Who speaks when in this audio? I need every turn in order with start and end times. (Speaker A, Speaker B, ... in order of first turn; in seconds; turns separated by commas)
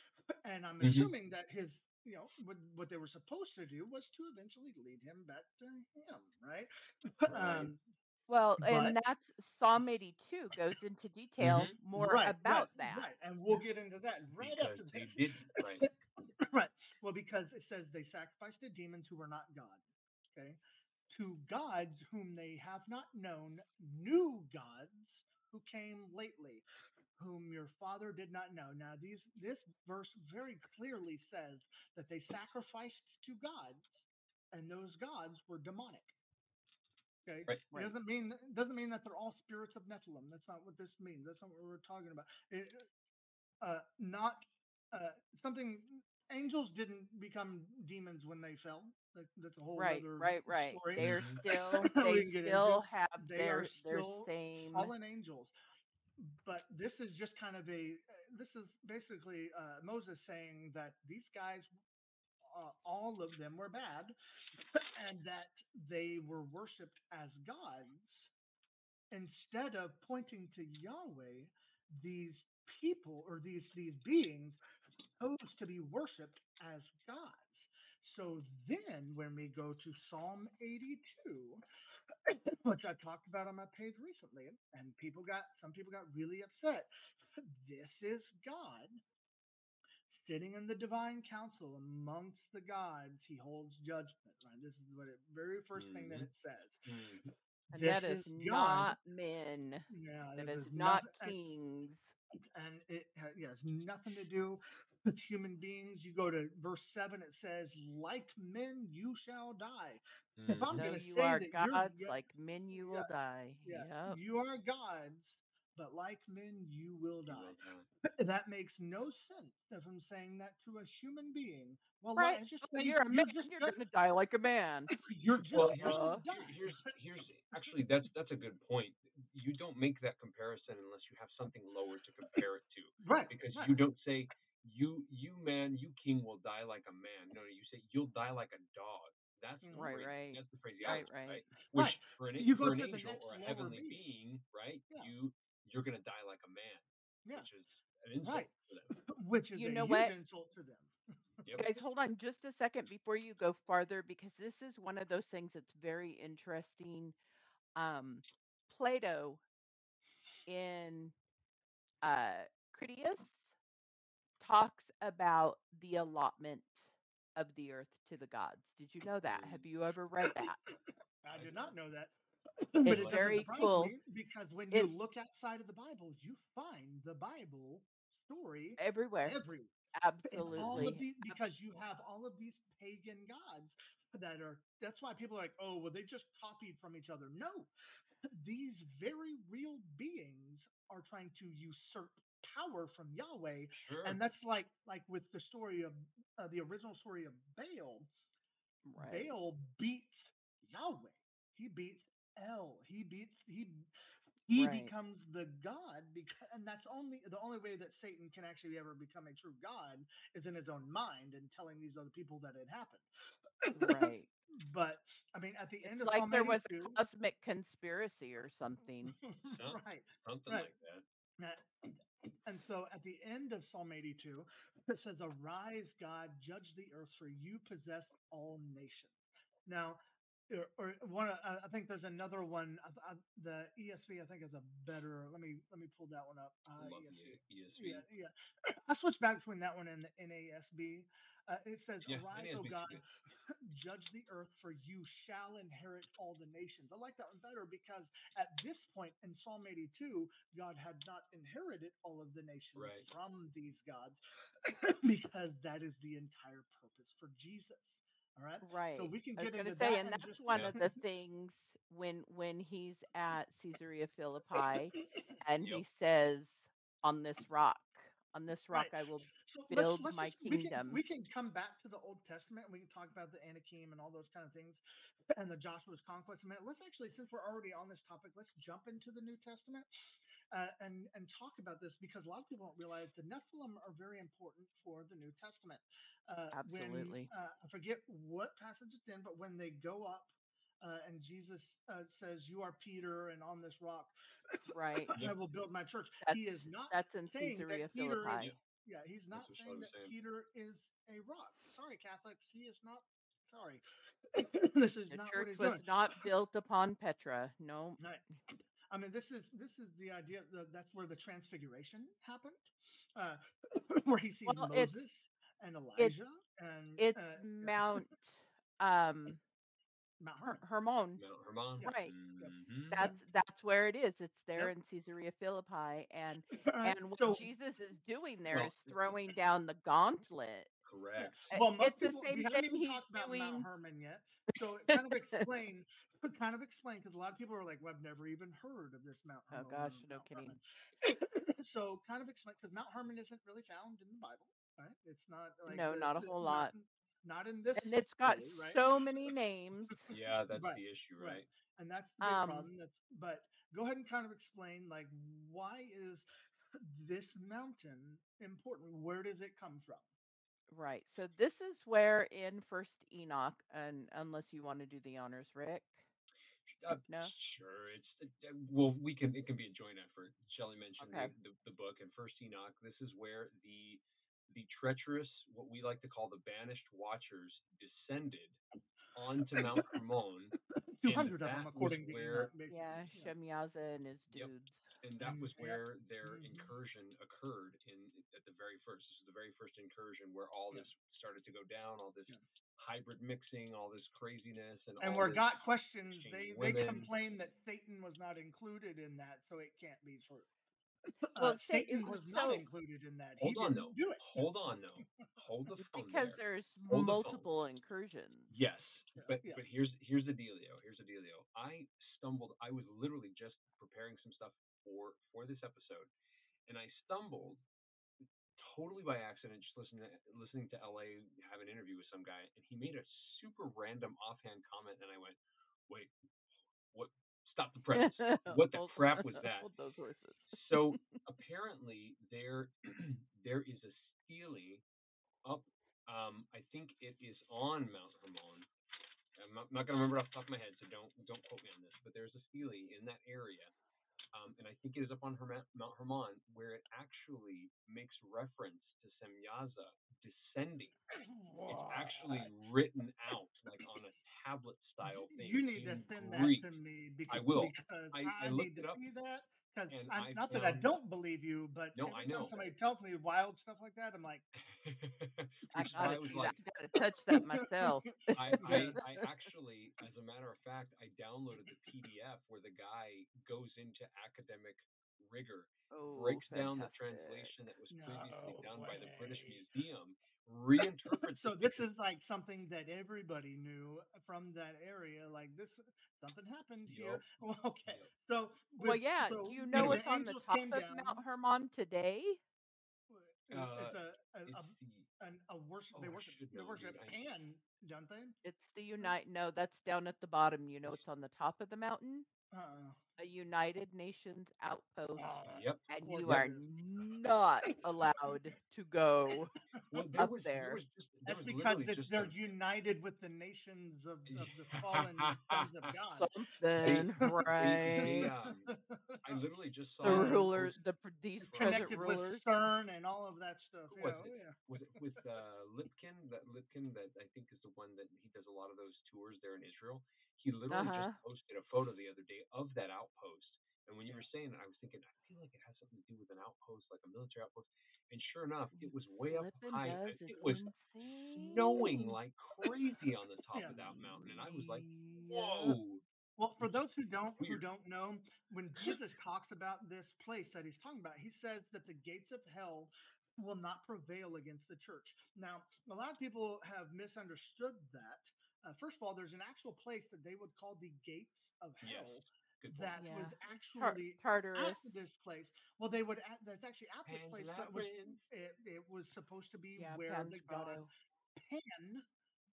Speaker A: 0.4-7.8, Speaker B: 0.8-1.1, Speaker B: 7.3-7.7, Speaker C: 8.3-13.1, Speaker A: 8.6-9.0, Speaker B: 11.4-11.8, Speaker A: 11.9-15.9, Speaker B: 14.4-15.9, Speaker A: 16.4-19.8, Speaker A: 21.1-26.6, Speaker A: 27.2-36.1, Speaker A: 37.3-42.9, Speaker A: 43.6-55.5, Speaker C: 49.8-54.9, Speaker B: 51.0-51.4, Speaker A: 56.2-61.7, Speaker A: 62.5-64.2, Speaker A: 64.7-68.3, Speaker A: 69.1-74.6, Speaker A: 75.2-81.6, Speaker A: 82.3-89.0, Speaker A: 90.1-96.8, Speaker B: 95.8-96.3, Speaker B: 96.8-97.3, Speaker A: 97.7-99.0, Speaker C: 97.7-102.1, Speaker A: 99.9-101.4, Speaker A: 102.5-112.2, Speaker B: 110.4-110.9, Speaker C: 110.7-114.2, Speaker A: 112.7-113.1, Speaker A: 113.7-123.8, Speaker B: 117.3-117.9, Speaker C: 122.2-124.9, Speaker A: 124.9-126.9, Speaker C: 125.5-126.2, Speaker B: 125.5-148.9, Speaker A: 133.0-133.8, Speaker A: 139.6-139.9, Speaker C: 139.8-141.4, Speaker A: 141.7-144.0, Speaker A: 148.2-151.5, Speaker C: 149.6-150.1, Speaker C: 151.6-157.2, Speaker C: 157.8-159.4, Speaker C: 160.5-161.1, Speaker C: 162.0-163.5, Speaker C: 164.4-170.6, Speaker B: 169.3-169.6, Speaker A: 171.2-179.7, Speaker B: 171.3-171.8, Speaker C: 172.8-173.9, Speaker B: 172.9-173.5, Speaker C: 178.8-179.4, Speaker C: 180.0-181.4, Speaker A: 180.3-187.7, Speaker B: 180.5-181.0, Speaker A: 188.2-198.1, Speaker B: 193.8-194.2, Speaker C: 198.8-199.3, Speaker A: 199.0-203.9, Speaker A: 204.5-213.1, Speaker C: 204.5-204.9, Speaker A: 213.6-217.0, Speaker C: 213.8-214.3, Speaker C: 215.8-219.2, Speaker A: 219.2-220.7, Speaker B: 219.6-221.0, Speaker A: 221.4-229.1, Speaker A: 229.7-261.0, Speaker B: 236.8-238.1, Speaker B: 242.1-243.0, Speaker B: 252.8-253.1, Speaker C: 258.6-271.0, Speaker B: 260.5-260.8, Speaker A: 268.7-274.8, Speaker A: 275.3-279.9, Speaker A: 280.5-290.3, Speaker C: 286.5-287.3, Speaker A: 290.8-303.8, Speaker C: 294.7-295.2, Speaker C: 296.2-298.5, Speaker B: 299.3-300.1, Speaker A: 304.3-306.2, Speaker C: 305.1-308.0, Speaker A: 308.9-318.0, Speaker C: 314.5-315.0, Speaker C: 317.0-319.4, Speaker A: 320.2-320.6, Speaker C: 320.6-321.2, Speaker B: 321.2-323.1, Speaker A: 321.8-323.2, Speaker C: 321.8-322.1, Speaker C: 322.9-330.7, Speaker A: 326.5-327.5, Speaker B: 328.5-328.9, Speaker B: 330.9-331.4, Speaker A: 331.2-348.8, Speaker C: 331.5-333.7, Speaker C: 339.5-340.6, Speaker C: 345.7-346.7, Speaker C: 347.8-350.0, Speaker B: 350.1-351.5, Speaker A: 350.5-360.0, Speaker C: 352.2-352.7, Speaker C: 360.7-366.1, Speaker B: 366.7-378.6, Speaker C: 367.1-367.3, Speaker C: 371.0-371.3, Speaker B: 379.1-380.5, Speaker A: 379.6-380.0, Speaker A: 380.9-383.3, Speaker B: 381.1-382.5, Speaker C: 382.7-384.9, Speaker B: 385.0-395.5, Speaker A: 385.2-386.7, Speaker A: 395.0-400.5, Speaker B: 396.1-397.1, Speaker A: 401.2-404.4, Speaker C: 401.4-402.6, Speaker B: 403.4-407.4, Speaker C: 405.9-408.7, Speaker B: 408.5-416.1, Speaker A: 409.2-409.6, Speaker B: 416.7-417.6, Speaker B: 418.6-426.1, Speaker B: 426.9-429.7, Speaker C: 428.0-431.0, Speaker B: 430.5-434.8, Speaker B: 435.4-438.7, Speaker B: 439.4-443.7, Speaker B: 444.3-451.0, Speaker A: 451.1-452.5, Speaker B: 451.7-456.7, Speaker A: 455.1-464.5, Speaker B: 457.3-459.0, Speaker B: 459.9-460.9, Speaker B: 461.9-462.7, Speaker B: 464.6-466.6, Speaker C: 465.7-469.0, Speaker A: 465.9-466.5, Speaker A: 467.3-467.9, Speaker B: 468.4-481.8, Speaker A: 468.5-469.0, Speaker C: 475.9-477.6, Speaker A: 477.9-479.6, Speaker A: 481.1-491.2, Speaker B: 486.9-487.3, Speaker C: 488.8-492.4, Speaker B: 489.8-490.0, Speaker A: 493.1-498.4, Speaker B: 493.5-495.1, Speaker B: 495.9-497.1, Speaker C: 498.4-502.3, Speaker A: 502.5-503.0, Speaker C: 503.2-509.5, Speaker A: 505.2-506.7, Speaker B: 505.5-506.4, Speaker A: 507.7-508.4, Speaker B: 509.9-512.4, Speaker C: 510.2-510.8, Speaker A: 511.2-519.3, Speaker B: 514.3-515.9, Speaker C: 516.1-518.3, Speaker B: 516.8-518.7, Speaker B: 519.2-520.8, Speaker C: 520.0-522.4, Speaker A: 520.0-520.6, Speaker B: 521.5-522.0, Speaker A: 521.5-525.0, Speaker B: 523.9-540.6, Speaker C: 530.7-531.2, Speaker C: 538.8-542.1, Speaker B: 541.4-546.0, Speaker A: 543.5-545.7, Speaker A: 546.4-570.8, Speaker B: 561.8-563.0, Speaker C: 563.0-565.0, Speaker B: 567.1-568.2, Speaker C: 569.8-570.9, Speaker A: 571.4-572.0